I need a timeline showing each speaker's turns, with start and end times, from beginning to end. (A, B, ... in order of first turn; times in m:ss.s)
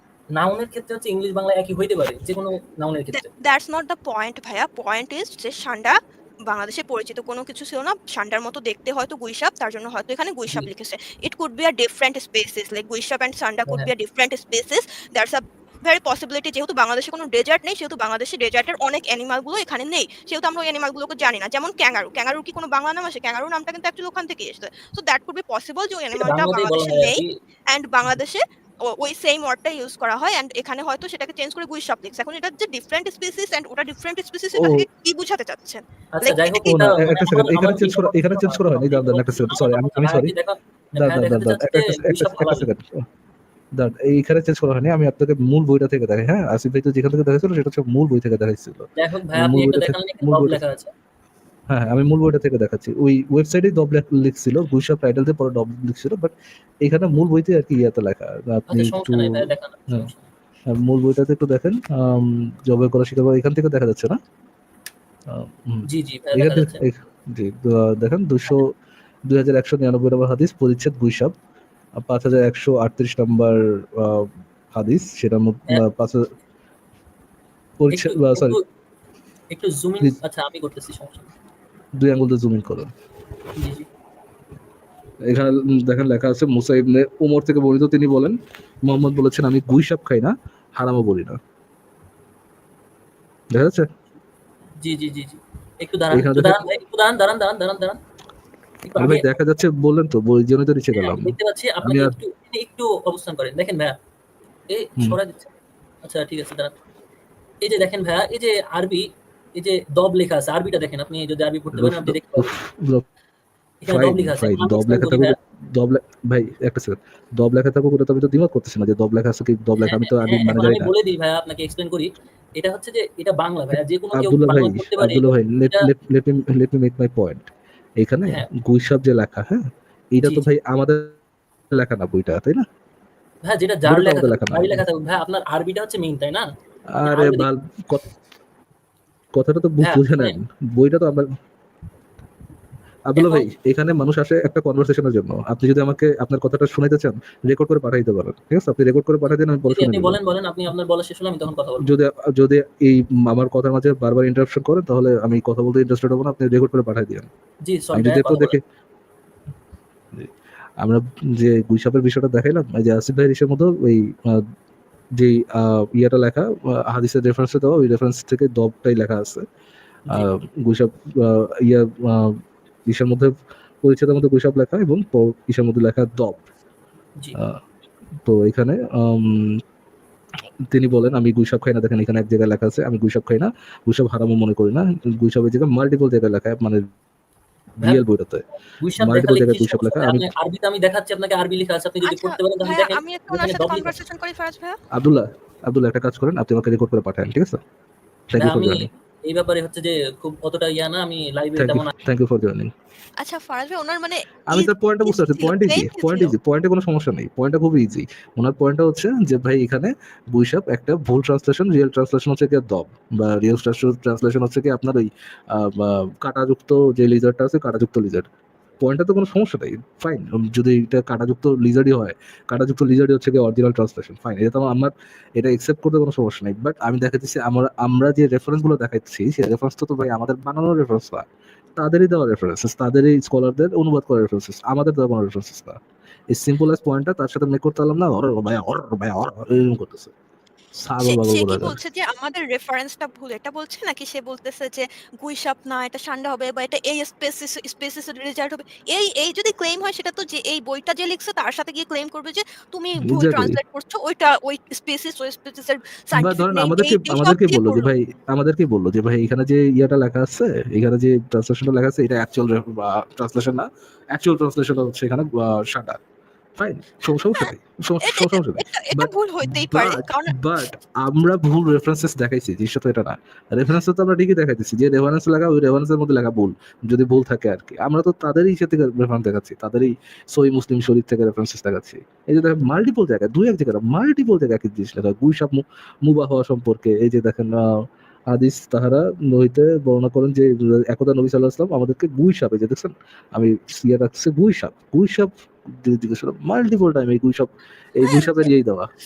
0:00.4-0:03.3 A
0:03.1-0:06.0 B
0:06.5-0:37.1 B
0:26.1-0:27.3 A
0:34.6-0:34.9 C
0:36.1-0:42.7 A
0:36.6-0:40.3 C
0:41.0-0:43.0 C
0:43.8-0:50.6 C
0:49.0-0:50.9 A
0:51.7-1:00.1 C
0:58.7-1:00.3 A
1:00.7-1:04.2 C
1:05.3-1:08.7 C
1:05.9-1:06.8 A
1:09.3-1:11.3 C
1:12.0-1:16.3 C
1:17.8-1:18.6 C
1:17.9-1:18.6 A
1:19.5-1:21.3 A
1:22.0-1:22.9 C
1:23.6-1:23.9 A
1:25.3-1:31.4 C
1:33.5-1:33.9 C
1:34.8-1:38.0 A
1:36.1-1:36.7 C
1:38.8-1:39.3 A
1:39.0-1:42.2 C
1:41.0-1:44.0 A
1:44.7-1:45.5 A
1:46.0-1:46.7 A
1:47.6-1:52.6 A
1:51.7-1:53.0 C
1:53.8-1:55.4 A
1:53.9-2:00.9 C
1:59.8-2:05.9 A
2:04.1-2:11.2 C
2:10.2-2:10.5 A
2:11.7-2:12.7 C
2:13.4-2:16.5 A
2:13.8-2:14.8 C
2:16.9-2:18.0 C
2:17.0-2:17.5 A
2:19.3-2:21.3 C
2:19.8-2:20.4 A
2:23.1-2:30.2 C
2:23.2-2:23.5 A
2:29.7-2:31.9 A
2:31.8-2:37.3 C
2:37.7-2:38.6 A
2:37.9-2:38.6 C
2:40.1-2:44.4 C
2:45.2-2:49.4 C
2:50.1-2:56.4 C
2:58.2-2:59.6 C
3:00.7-3:06.9 C
3:07.8-3:08.4 C
3:08.8-3:13.9 A
3:09.0-3:10.3 C
3:12.0-3:14.8 B
3:14.9-3:17.6 C
3:18.3-3:18.9 C
3:18.4-3:21.9 A
3:21.6-3:22.7 C
3:23.2-3:26.3 B
3:24.5-3:38.3 C
3:38.8-3:51.2 C
3:51.8-3:55.8 C
3:56.3-4:00.1 C
4:00.8-4:01.8 C
4:01.0-4:17.9 B
4:13.0-4:13.6 C
4:16.1-4:26.0 C
4:26.6-4:47.7 C
4:28.0-4:30.4 B
4:48.3-4:58.9 C
4:58.0-4:58.5 B